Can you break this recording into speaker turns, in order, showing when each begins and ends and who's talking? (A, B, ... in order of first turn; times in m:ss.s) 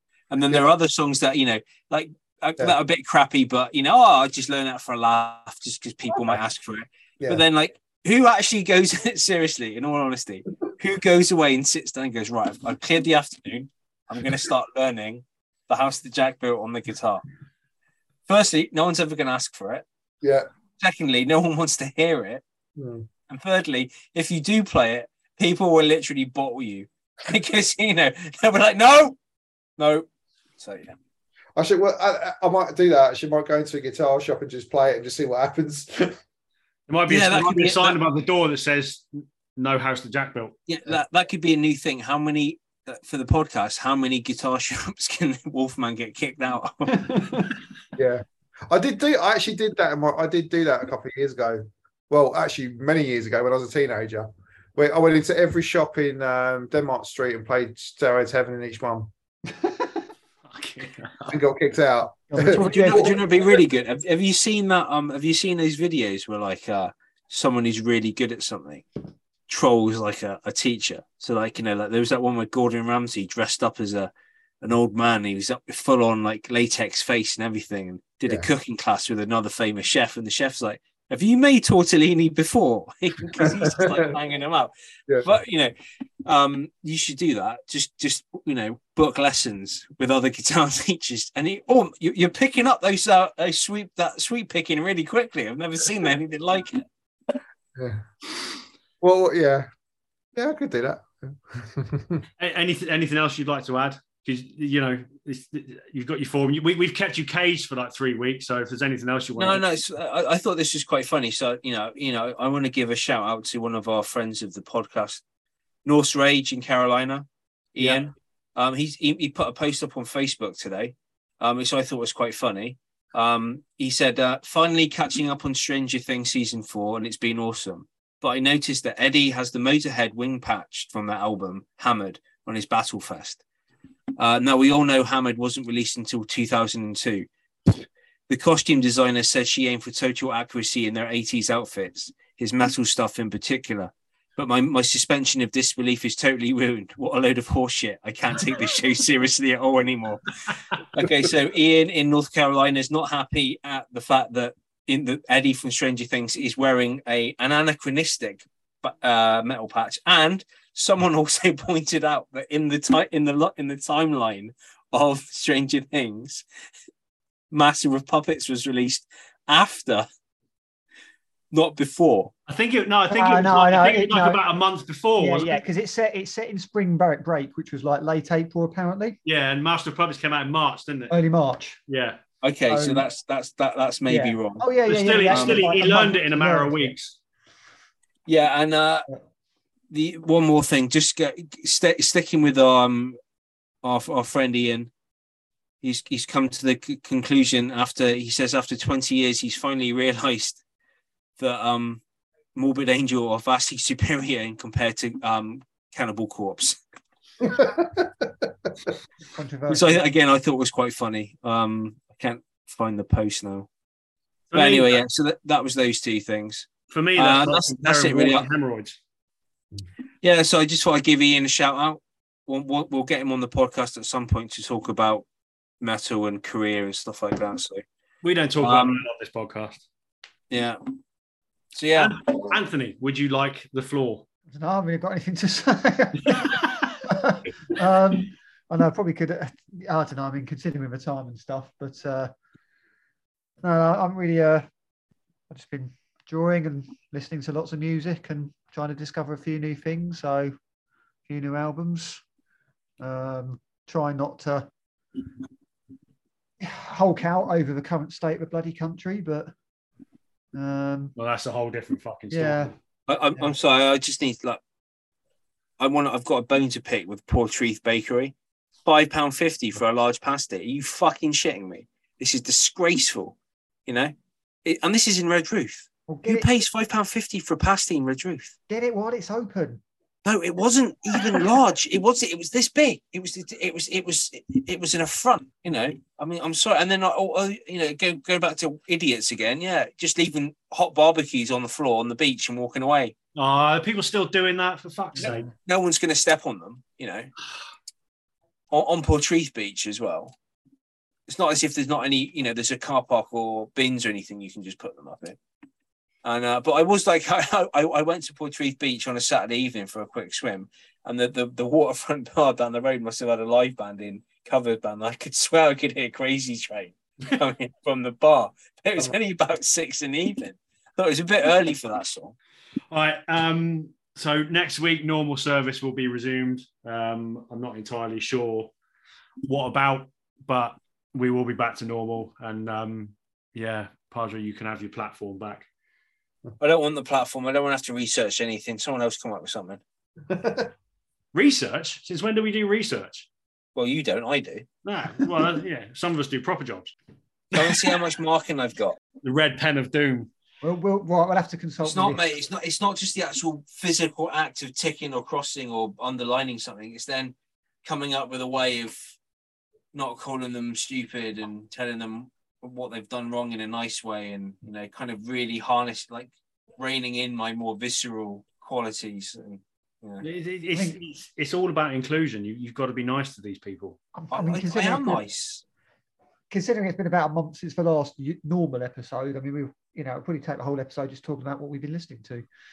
0:00.3-0:17.2 A
0:18.3-0:19.8 A
0:20.2-0:20.5 B
0:20.8-0:22.4 A
0:22.8-0:23.1 B
0:23.3-0:29.2 A
0:29.8-0:30.1 A
0:30.6-0:31.0 A
0:31.6-0:36.2 B
0:36.9-0:40.6 C
0:37.1-0:38.0 A
0:40.7-0:47.4 A
0:48.0-0:59.1 B
1:00.5-1:01.4 C
1:01.3-1:03.2 B
1:02.3-1:03.2 D
1:02.5-1:08.9 A
1:09.5-1:24.7 A
1:23.4-1:24.1 B
1:25.2-1:25.7 A
1:26.2-1:36.8 A
1:37.8-1:38.0 B
1:39.0-1:39.7 B
1:40.4-1:42.2 B
1:42.4-1:49.6 C
1:49.4-1:55.2 A
1:55.8-2:13.4 A
1:57.8-1:58.1 C
2:14.2-2:17.3 A
2:18.3-2:46.4 A
2:47.5-2:50.1 A
2:51.5-2:52.3 A
2:52.5-2:55.6 C
2:53.1-2:54.4 D
2:55.2-2:59.2 D
2:59.2-3:01.2 C
3:01.1-3:01.8 D
3:01.9-3:02.2 C
3:02.4-3:04.7 A
3:02.7-3:03.0 D
3:04.1-3:07.0 D
3:04.9-3:07.2 C
3:05.3-3:05.7 A
3:08.3-3:09.1 A
3:09.9-3:13.2 A
3:13.8-3:14.9 A
3:15.8-3:20.6 A
3:21.4-3:22.0 A
3:22.6-3:26.8 A
3:27.4-3:28.5 B
3:29.3-3:30.0 D
3:29.7-3:33.7 A
3:34.5-3:35.0 C
3:34.5-3:38.5 A
3:36.9-3:39.0 C
3:40.2-3:45.3 A
3:45.8-3:47.8 A
3:48.2-3:49.9 C
3:48.6-3:49.0 A
3:50.5-3:50.8 A
3:51.7-3:52.2 A
3:52.0-3:54.2 C
3:54.5-4:02.3 D
3:56.3-3:56.8 C
4:03.6-4:04.7 D
4:05.5-4:10.5 D
4:11.3-4:12.2 D
4:13.0-4:14.7 D
4:16.6-4:19.5 D
4:20.5-4:21.1 D
4:21.2-4:22.7 C
4:22.3-4:22.7 D
4:23.1-4:24.6 A
4:25.8-4:28.3 A
4:28.8-4:33.4 A
4:33.9-4:34.1 A
4:34.6-4:38.5 A
4:36.1-4:36.5 D
4:38.7-4:39.8 D
4:40.2-4:53.2 A
4:53.4-4:55.5 C
4:55.2-4:57.3 A
4:58.7-5:00.4 A
5:01.3-5:05.4 A
5:06.2-5:22.4 A
5:22.9-5:28.7 C
5:29.4-5:35.7 C
5:36.6-5:39.8 A
5:40.3-5:40.7 B
5:41.3-5:43.3 C
5:43.8-5:44.7 A
5:44.8-5:46.9 C
5:47.5-5:48.0 C
5:47.5-5:49.0 A
5:49.2-5:50.3 C
5:50.6-5:52.3 D
5:51.8-5:59.2 A
5:59.9-6:10.2 A
6:10.2-6:14.0 C
6:14.2-6:15.2 D
6:14.3-6:15.6 A
6:16.5-6:22.5 D